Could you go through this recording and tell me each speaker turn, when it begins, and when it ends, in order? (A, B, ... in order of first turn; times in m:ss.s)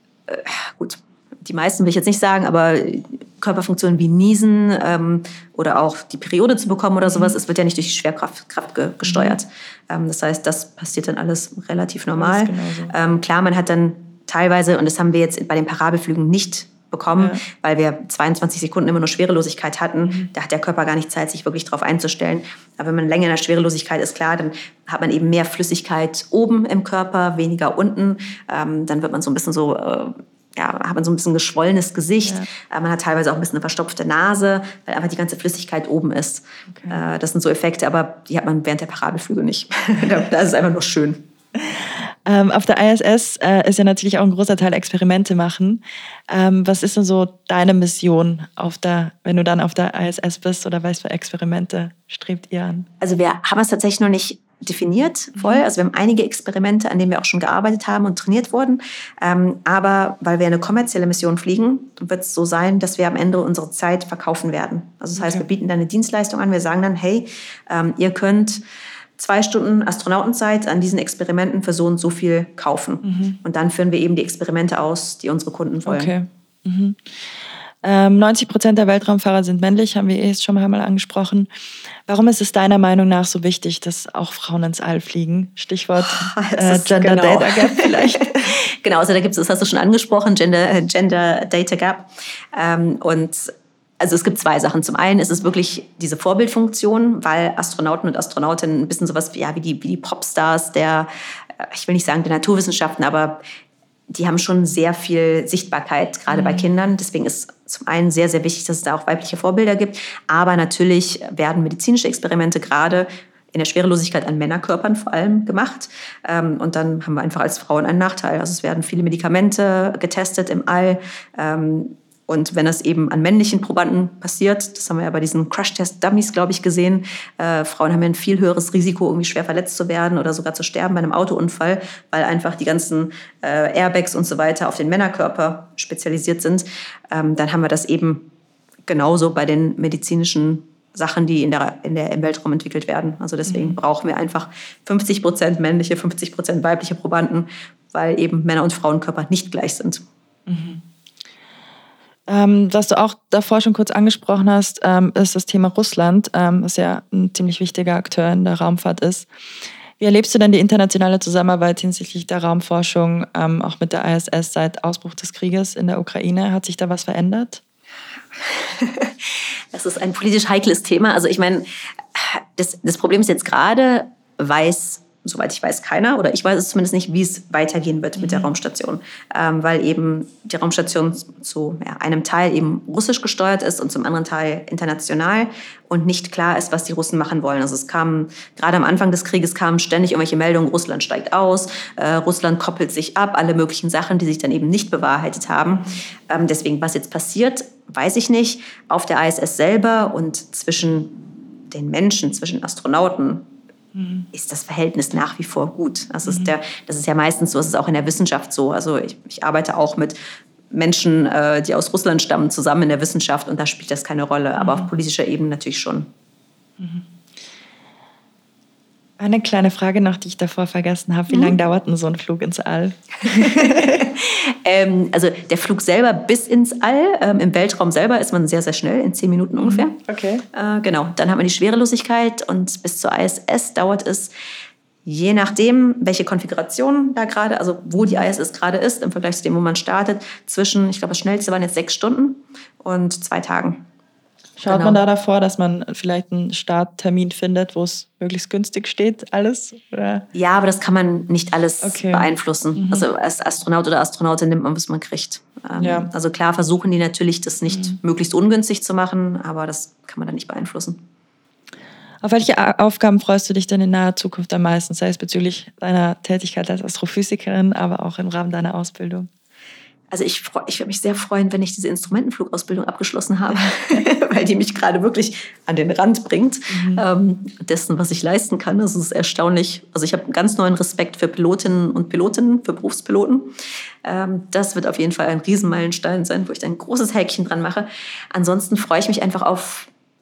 0:00.3-0:41.2 A
0:09.0-0:09.4 B
0:12.2-0:12.9 B
0:17.2-0:17.4 B
0:20.0-0:20.3 B
0:36.7-0:37.0 B
0:41.6-0:52.9 B
0:53.0-1:08.6 A
0:55.4-0:55.6 B
1:05.2-1:05.4 B
1:09.2-1:16.1 A
1:13.0-1:13.4 B
1:15.9-1:17.0 B
1:17.8-1:21.5 B
1:22.1-1:28.6 B
1:26.0-1:43.4 A
1:44.1-2:18.3 A
1:46.3-1:46.7 B
2:18.9-2:30.0 A
2:23.5-2:23.8 B
2:30.5-2:30.8 B
2:32.3-2:39.3 B
2:40.0-2:47.6 B
2:48.4-3:21.2 A
2:58.2-2:58.5 B
3:21.7-3:23.5 A
3:24.0-3:24.3 B
3:24.3-3:30.2 A
3:30.7-3:36.1 A
3:34.6-3:34.9 B
3:36.8-3:37.1 B
3:39.2-3:44.0 B
3:41.3-3:41.6 A
3:43.3-3:50.0 A
3:49.6-3:50.4 B
3:50.5-3:54.3 A
3:55.0-4:03.8 A
4:04.6-4:10.3 B
4:04.6-4:05.0 A
4:10.3-4:21.0 A
4:11.8-4:13.1 B
4:15.8-4:16.1 B
4:17.7-4:18.0 B
4:22.2-4:29.3 B
4:30.1-4:49.9 A
4:36.7-4:37.0 B